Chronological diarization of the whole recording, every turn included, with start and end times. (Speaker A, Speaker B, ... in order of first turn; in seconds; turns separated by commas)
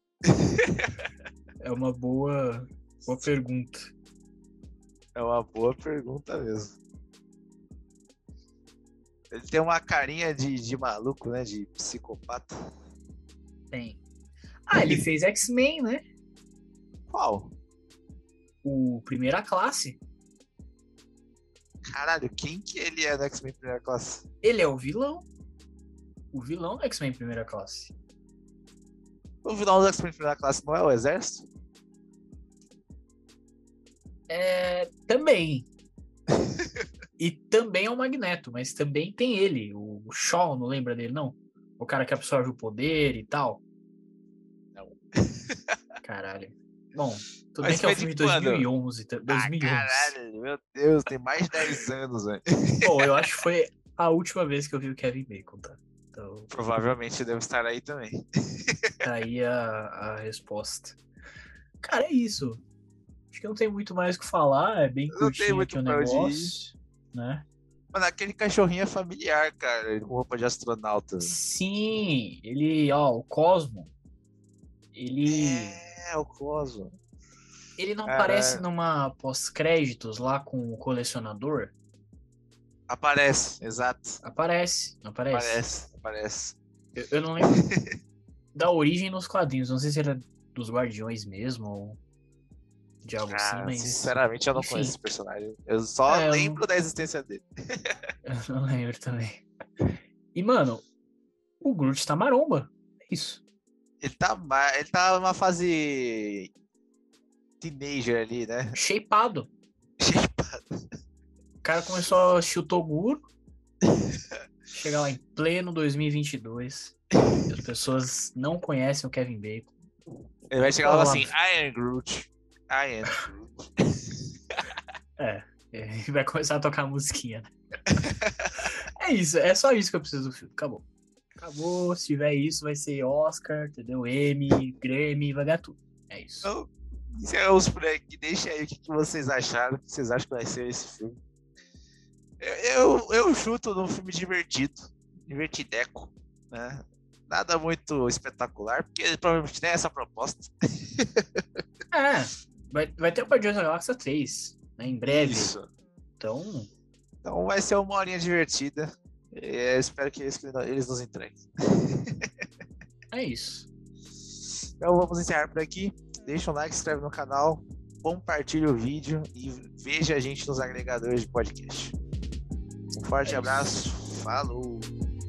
Speaker A: 0.3-1.0, Speaker B: 1.6-3.9, Speaker A: 5.1-6.8, Speaker A: 9.3-12.5, Speaker B: 13.7-14.0, Speaker B: 14.7-16.0, Speaker A: 14.7-15.0, Speaker A: 17.1-17.5, Speaker B: 18.6-20.0, Speaker A: 21.9-24.2, Speaker B: 24.4-25.2, Speaker B: 26.3-27.9, Speaker A: 29.4-31.5, Speaker B: 34.3-35.7, Speaker B: 37.2-43.6, Speaker A: 44.7-45.7, Speaker B: 46.0-50.1, Speaker A: 47.6-48.7, Speaker A: 49.3-52.9, Speaker B: 52.8-56.5, Speaker A: 56.5-58.9, Speaker B: 59.0-61.0, Speaker B: 61.8-62.6, Speaker B: 63.3-67.4, Speaker A: 65.1-66.5, Speaker A: 67.9-71.4, Speaker B: 71.2-73.9, Speaker B: 74.9-75.8, Speaker A: 75.3-76.9, Speaker B: 77.8-81.7, Speaker A: 78.0-78.6, Speaker A: 82.9-84.2, Speaker B: 84.2-85.6, Speaker A: 85.3-86.6, Speaker B: 87.0-87.6, Speaker A: 87.4-87.9, Speaker B: 88.5-92.0, Speaker B: 93.0-95.0, Speaker A: 93.3-98.1, Speaker B: 96.1-96.6, Speaker B: 98.2-99.4, Speaker B: 100.3-100.8, Speaker B: 101.6-103.4, Speaker A: 104.0-106.5, Speaker A: 107.6-108.8, Speaker B: 108.7-109.5, Speaker A: 110.0-110.7, Speaker B: 111.6-113.2, Speaker B: 114.7-119.7, Speaker A: 120.5-124.6, Speaker B: 120.8-121.3, Speaker B: 125.2-127.5, Speaker A: 127.9-128.5, Speaker B: 128.6-130.8, Speaker B: 131.4-136.5, Speaker A: 136.4-141.2, Speaker A: 142.4-151.4, Speaker B: 151.9-155.6, Speaker A: 155.1-155.7, Speaker B: 156.2-156.7, Speaker A: 157.2-162.3, Speaker B: 163.1-163.7, Speaker A: 164.8-171.9, Speaker A: 172.9-174.9, Speaker B: 173.2-173.7